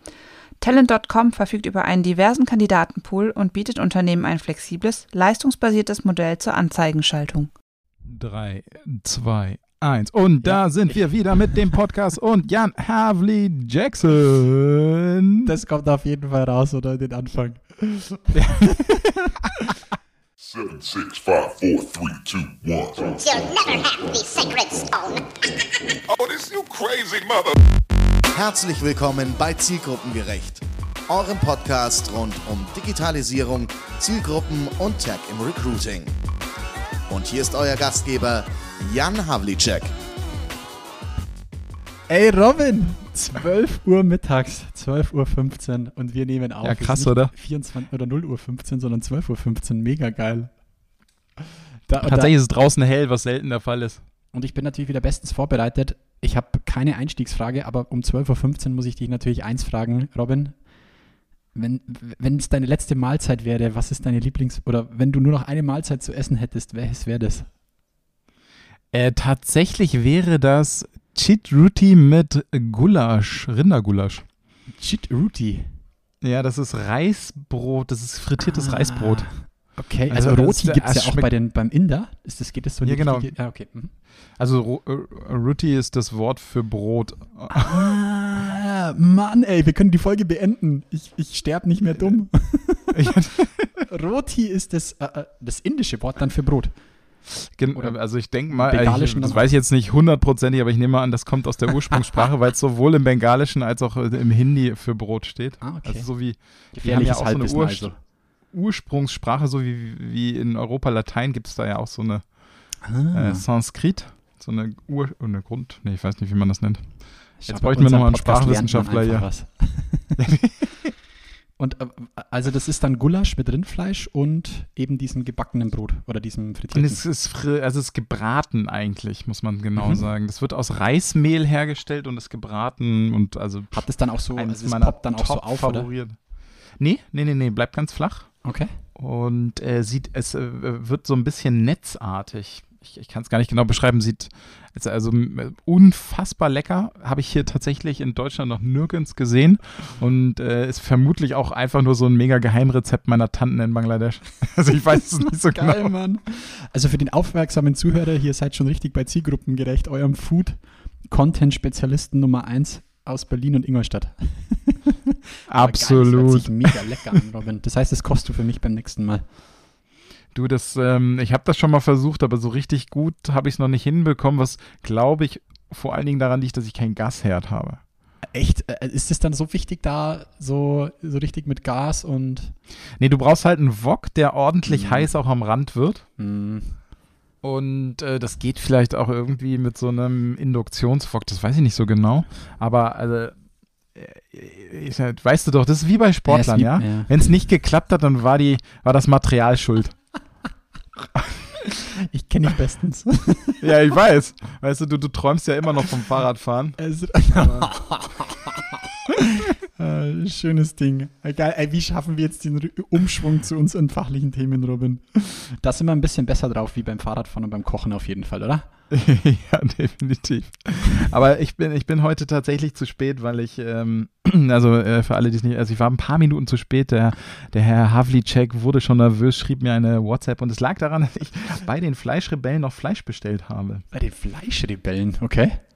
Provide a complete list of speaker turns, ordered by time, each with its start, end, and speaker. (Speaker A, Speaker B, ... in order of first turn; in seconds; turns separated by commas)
Speaker A: 0.6-7.5, Speaker B: 8.1-15.5, Speaker C: 10.4-11.0, Speaker C: 15.4-19.4, Speaker B: 18.3-19.0, Speaker D: 20.4-23.6, Speaker E: 23.2-25.4, Speaker D: 25.8-27.5, Speaker F: 28.3-36.1, Speaker F: 37.1-39.9, Speaker C: 42.1-50.5, Speaker B: 46.6-47.3, Speaker C: 51.9-52.3, Speaker B: 52.0-54.0, Speaker C: 54.3-60.5, Speaker C: 61.5-67.5, Speaker B: 68.9-74.2, Speaker C: 74.7-75.7, Speaker B: 76.2-79.3, Speaker C: 78.4-83.9, Speaker B: 80.1-81.3, Speaker B: 82.8-83.3, Speaker B: 84.3-87.9, Speaker C: 87.5-93.1, Speaker B: 92.9-93.8, Speaker C: 93.9-96.7, Speaker B: 97.6-107.9, Speaker C: 97.7-99.5, Speaker C: 101.9-102.2, Speaker C: 105.6-106.1, Speaker C: 106.7-107.9, Speaker B: 108.5-112.3, Speaker C: 112.8-113.4, Speaker B: 113.1-119.3, Speaker C: 117.4-120.2, Speaker B: 120.2-120.9, Speaker C: 121.6-127.0, Speaker B: 126.7-136.2, Speaker C: 129.8-130.0, Speaker C: 133.7-135.9, Speaker B: 136.8-138.3, Speaker C: 138.4-138.7, Speaker B: 138.9-155.9, Speaker C: 155.2-169.2, Speaker B: 165.5-167.2, Speaker B: 170.3-177.8, Speaker C: 178.2-182.5, Speaker B: 183.0-186.0, Speaker C: 184.7-185.1, Speaker C: 186.2-186.8, Speaker B: 187.4-193.4, Speaker B: 193.9-200.0, Speaker C: 196.3-197.1, Speaker C: 201.6-203.6, Speaker B: 203.6-206.8, Speaker C: 206.8-218.7, Speaker B: 207.3-207.7, Speaker B: 218.9-233.8, Speaker C: 233.9-235.6